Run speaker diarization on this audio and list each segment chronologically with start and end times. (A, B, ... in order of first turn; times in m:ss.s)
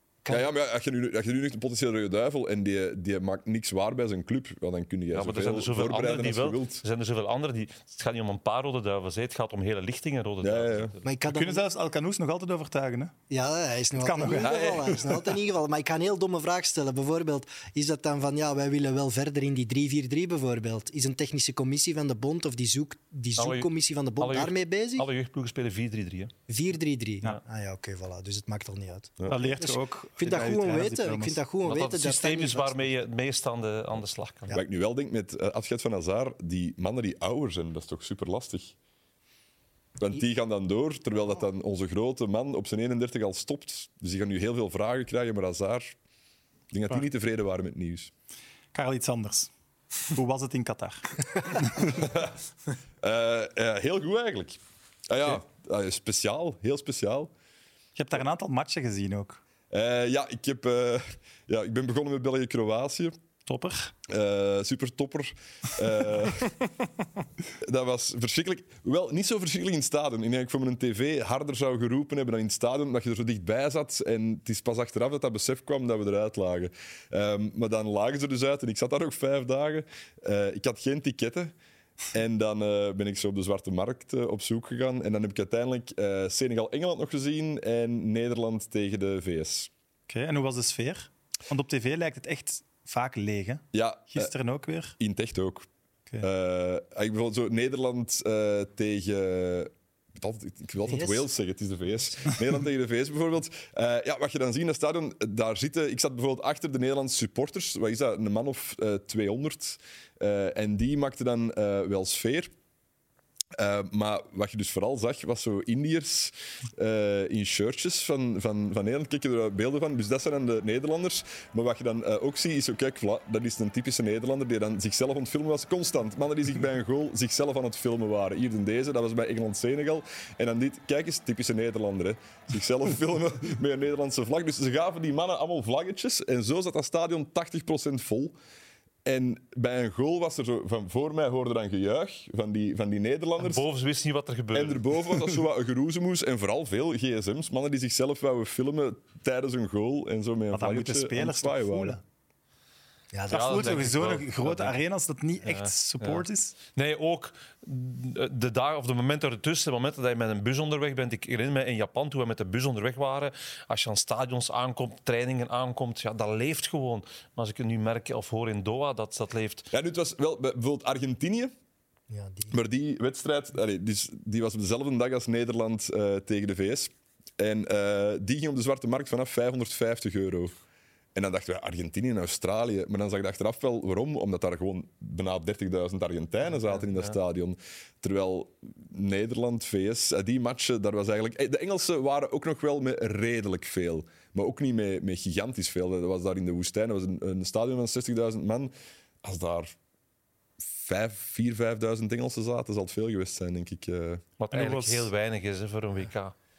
0:00.2-0:00.5 A
0:00.3-0:06.8 B
0:05.1-0:11.0 C
0:10.4-0:10.9 B
0:11.0-0:11.6 A
0:11.3-0:13.1 D
0:13.3-0:25.1 A
0:14.0-0:15.0 D
0:14.4-0:15.0 B
0:23.4-0:26.3 C
0:26.5-0:32.9 A
0:29.3-0:31.4 D
0:31.6-0:34.5 C
0:34.5-0:38.8 B
0:40.0-0:46.0 B
0:46.7-0:48.1 B
0:48.7-0:49.5 D
0:50.1-0:51.9 D
0:51.9-0:52.3 B
0:53.0-0:54.6 B
0:55.1-0:57.3 B
0:58.0-0:59.4 D
0:59.7-1:03.2 B
1:03.5-1:03.9 D
1:04.1-1:06.6 B
1:07.6-1:21.5 B
1:22.1-1:29.7 B
1:30.1-1:35.0 D
1:33.7-1:34.3 B
1:35.0-1:35.7 B
1:36.2-1:52.5 B
1:40.8-1:41.2 A
1:53.6-2:18.4 B
2:19.0-2:23.6 B
2:23.4-2:24.9 C
2:24.5-2:32.0 B
2:30.5-2:32.0 D
2:33.1-2:34.0 A
2:33.3-2:34.8 C
2:33.3-2:36.6 D
2:35.4-2:36.2 C
2:36.8-2:49.7 C
2:49.7-2:51.5 B
2:52.1-2:52.6 A
2:52.5-3:00.5 B
3:01.2-3:18.7 B
3:19.2-3:19.8 B
3:20.6-3:24.2 B
3:24.4-3:26.3 C
3:24.5-3:25.1 D